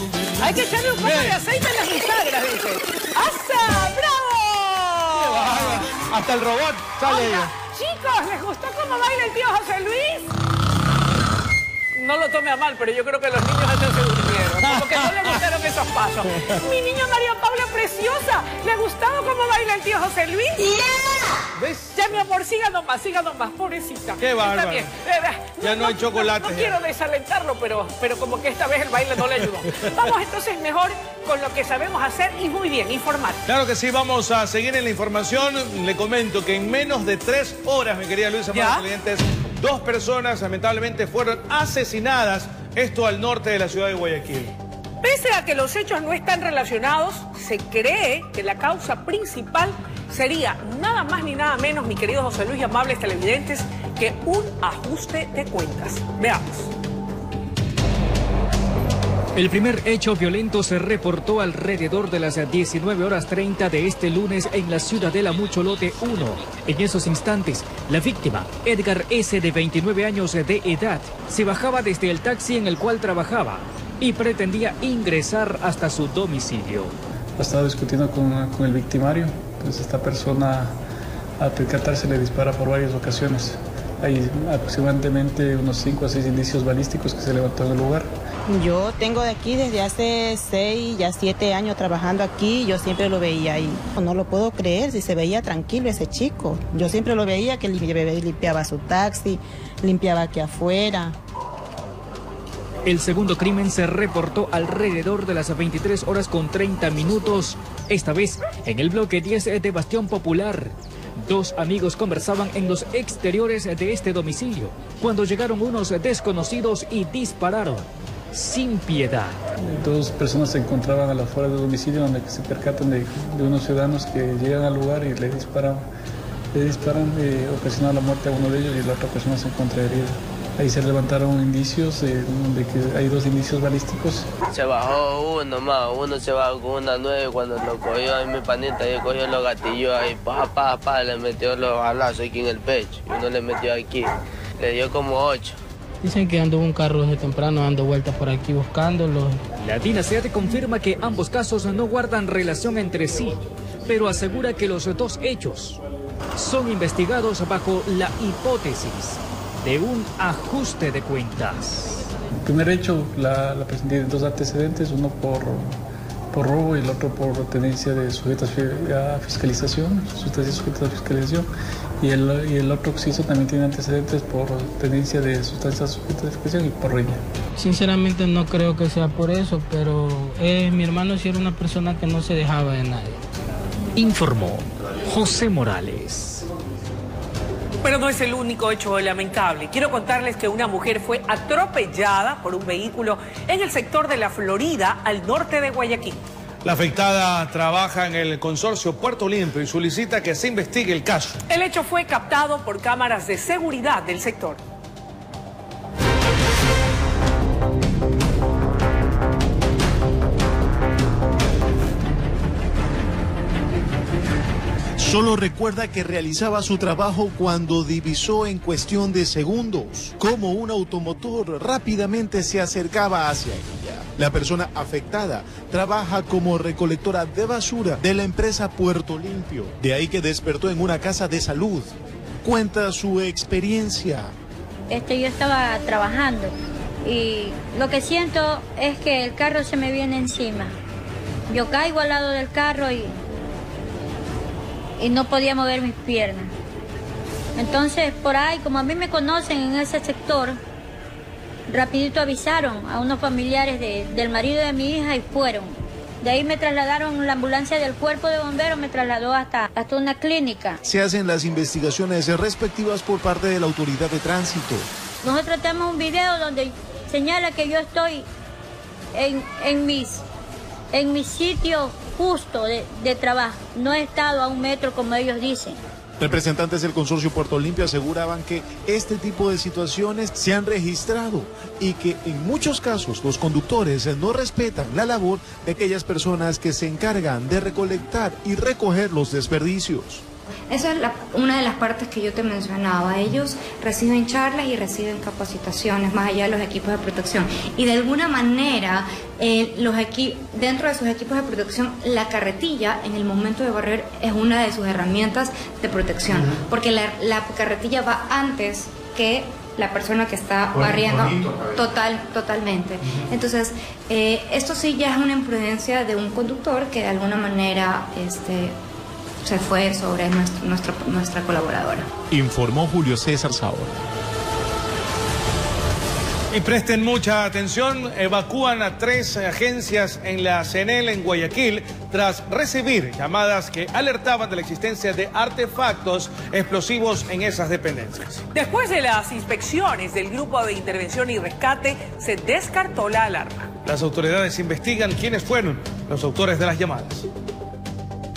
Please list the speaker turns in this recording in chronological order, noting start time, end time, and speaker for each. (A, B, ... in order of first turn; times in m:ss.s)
0:00.4-0:05.8 A
0:01.0-0:01.4 B
0:05.2-0:07.5 B
0:07.0-0:10.3 A
0:12.0-0:20.8 A
0:14.6-0:15.4 B
0:16.3-0:16.6 B
0:21.6-0:22.0 B
0:22.0-0:33.4 A
0:24.2-0:24.9 B
0:25.6-0:26.8 B
0:29.3-0:30.1 B
0:33.5-0:44.5 B
0:38.5-0:38.8 A
0:45.0-0:56.7 A
0:59.4-1:17.0 C
1:17.4-1:20.8 D
1:21.4-1:28.1 D
1:28.5-1:41.2 E
1:42.8-1:59.4 C
1:59.7-2:05.9 D
2:06.5-2:14.3 D
2:14.5-2:24.1 F
2:24.6-2:25.6 F
2:26.0-2:29.4 G
2:29.6-2:35.8 C
2:36.4-2:42.1 C
2:42.4-2:45.8 D
2:46.3-2:51.5 D
2:52.0-2:57.2 D
2:57.6-3:03.2 G
3:04.0-3:06.4 C
3:07.8-3:16.2 A
3:16.6-3:21.4 B
3:21.5-3:24.6 A
3:35.0-3:51.9 H
3:52.4-3:54.3 H
3:54.9-3:56.5 I
3:57.0-4:00.7 I
4:01.5-4:03.1 I
4:05.0-4:06.5 I
4:07.6-4:10.6 I
4:11.7-4:15.7 I
4:16.2-4:20.8 I
4:20.8-4:24.9 H
4:25.2-4:28.2 I
4:29.2-4:30.2 I
4:30.9-4:35.7 I
4:36.2-4:50.2 H
4:50.7-5:18.8 J
5:10.8-5:11.8 F
5:19.4-5:22.1 J
5:22.3-5:24.0 H
5:26.5-5:38.4 B
5:38.5-5:43.7 A
5:43.8-5:47.3 B